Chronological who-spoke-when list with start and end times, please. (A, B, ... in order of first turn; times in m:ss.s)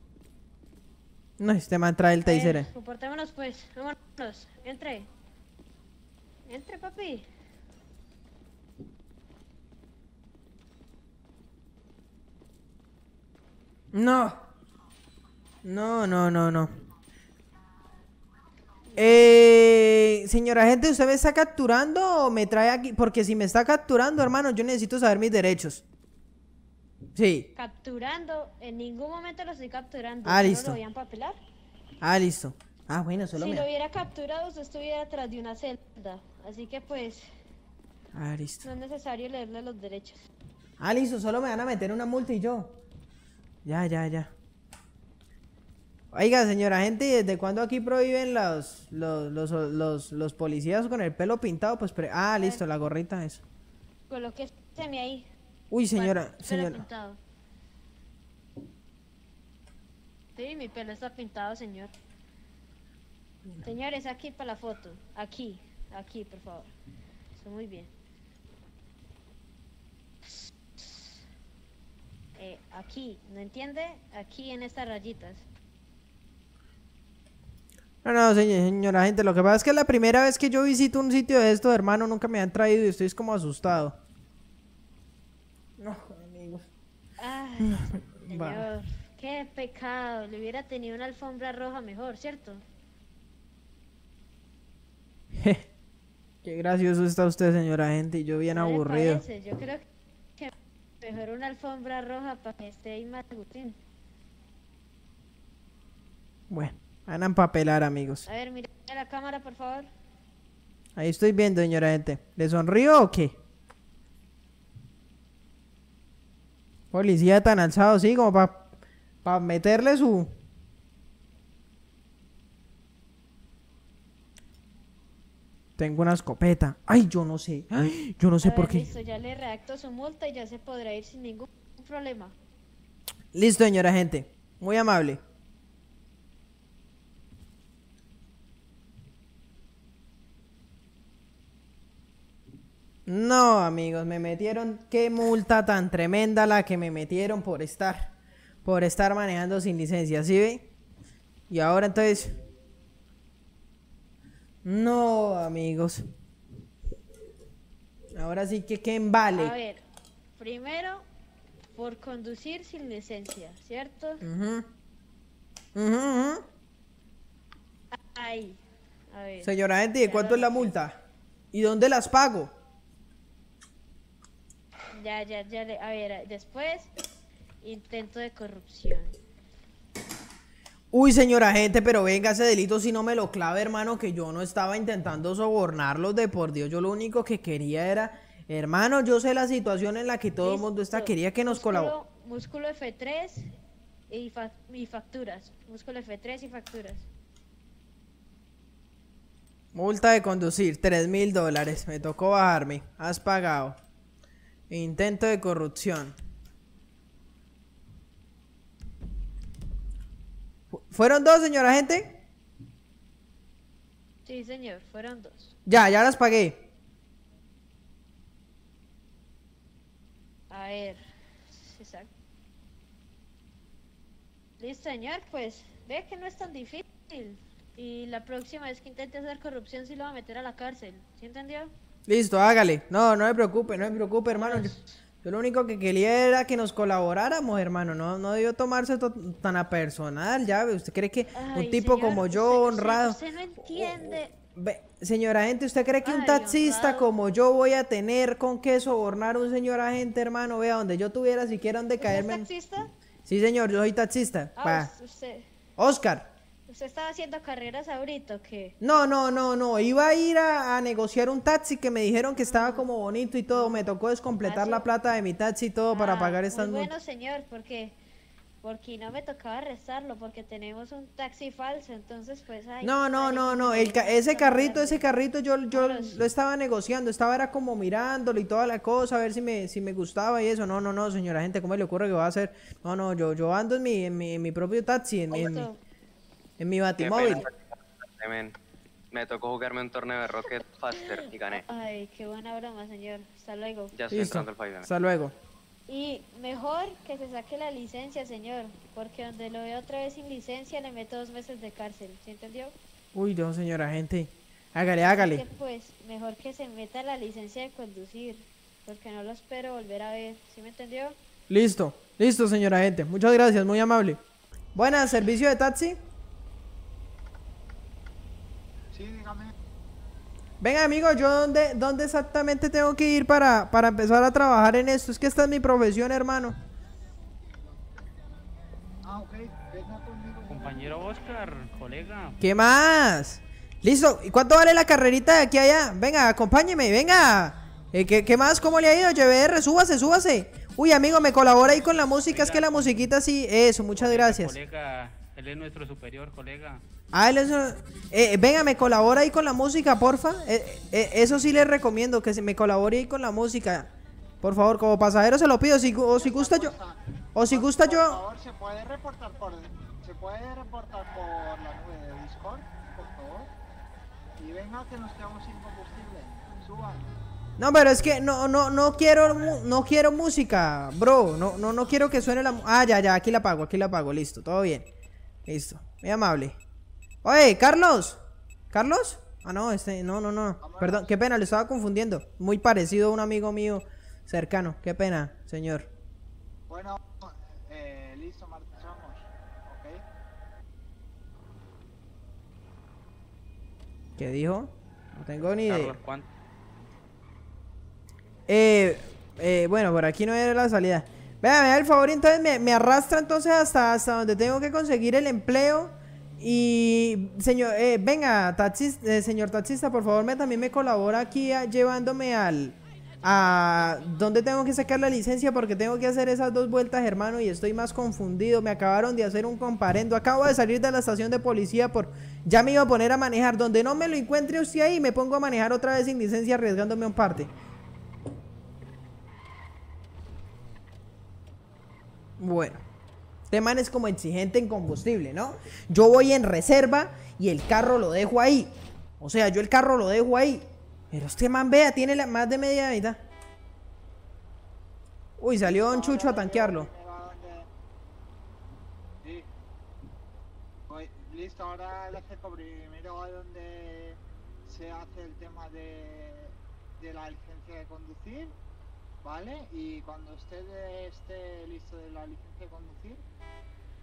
0:01.4-0:02.7 A
0:02.2-0:05.1 B
0:06.5-0:07.2 B
0:13.9-0:14.4 A
0:15.6-0:16.7 A
0:18.9-0:25.8 A
0:27.1-0:27.5 A
0:27.6-0:31.4 B
0:30.2-0:30.8 A
0:32.0-0:33.6 A
0:33.4-0:37.2 B
0:38.1-0:38.6 A
0:38.6-0:40.2 B
0:40.8-0:42.8 A
0:43.6-0:44.3 A
0:46.1-0:53.4 A
0:54.1-0:55.3 B
0:55.7-0:56.8 A
0:55.9-0:57.2 B
1:00.4-1:01.9 B
1:03.6-1:06.7 B
1:07.4-1:07.9 B
1:10.3-1:11.1 B
1:12.4-1:15.4 B
1:18.0-1:24.0 A
1:25.8-1:26.7 A
1:27.2-1:32.6 B
1:27.6-1:28.6 A
1:35.3-1:35.6 A
1:36.4-1:39.2 A
1:38.5-1:39.8 B
1:40.4-1:43.8 B
1:46.5-1:48.2 A
1:48.2-1:49.9 B
1:51.0-1:53.4 A
1:56.9-1:58.7 A
1:59.2-2:00.3 A
2:05.8-2:08.9 A
2:08.4-2:12.3 B
2:13.3-2:15.2 A
2:23.0-2:28.1 A
2:28.6-2:30.6 A
2:31.5-2:32.3 A
2:34.6-2:36.0 A
2:38.1-2:39.5 A
2:39.3-2:39.8 B
2:40.4-2:41.0 B
2:41.7-2:44.2 B
2:44.2-2:44.7 A
2:45.7-2:46.4 A
2:47.9-2:48.6 B
2:49.1-2:50.7 B
2:49.4-2:51.0 A
2:51.5-2:52.5 A
2:54.9-2:56.9 B
2:57.6-2:59.1 B
3:00.9-3:11.9 A
3:10.4-3:13.5 B
3:14.1-3:17.0 B
3:19.7-3:23.8 A
3:24.7-3:26.1 A
3:30.7-3:32.2 A
3:34.2-3:35.5 B
3:35.6-3:36.6 A
3:40.5-3:41.0 B
3:41.5-3:42.1 B
3:44.6-3:51.7 B
3:52.1-4:12.5 A
3:54.3-3:54.9 B
4:01.3-4:04.3 B
4:06.0-4:07.1 B
4:12.0-4:12.9 B
4:13.2-4:14.9 A
4:14.6-4:15.4 B
4:15.8-4:16.3 A
4:16.7-4:18.7 B
4:18.8-4:26.9 A
4:22.5-4:22.8 B
4:24.4-4:24.9 B
4:25.9-4:27.9 B
4:28.6-4:35.1 B
4:32.8-4:45.7 A
4:35.7-4:36.2 B
4:45.3-4:45.8 B
4:46.6-4:47.4 A
4:47.0-4:47.6 C
4:48.1-4:48.5 C
4:49.1-4:51.6 C
4:50.9-4:53.9 B
4:53.9-4:54.9 C
4:54.1-4:55.3 A
4:55.9-5:02.7 B
5:03.1-5:05.4 A
5:05.0-5:11.2 B
5:11.5-5:14.2 A
5:14.7-5:16.0 A
5:18.9-5:19.5 D
5:20.6-5:26.6 A
5:29.0-5:31.1 D
5:30.5-5:32.4 E
5:32.4-5:44.5 A
5:42.3-5:42.6 E
5:44.0-5:46.8 E
5:47.1-5:53.9 A
5:54.4-5:56.7 A
5:56.2-6:03.5 D
5:57.3-5:58.2 A
6:04.4-6:07.1 D
6:07.6-6:14.9 A
6:15.5-6:16.6 A
6:17.2-6:18.2 A
6:18.7-6:25.9 A
6:20.6-6:21.1 D
6:26.7-6:30.0 D
6:34.2-6:36.0 A
6:35.6-6:36.2 E
6:38.5-7:07.5 A
7:12.4-7:12.8 A
7:13.5-7:23.2 A
7:25.4-7:26.9 A
7:25.6-7:27.7 D
7:30.9-7:38.5 D
7:39.2-7:43.2 D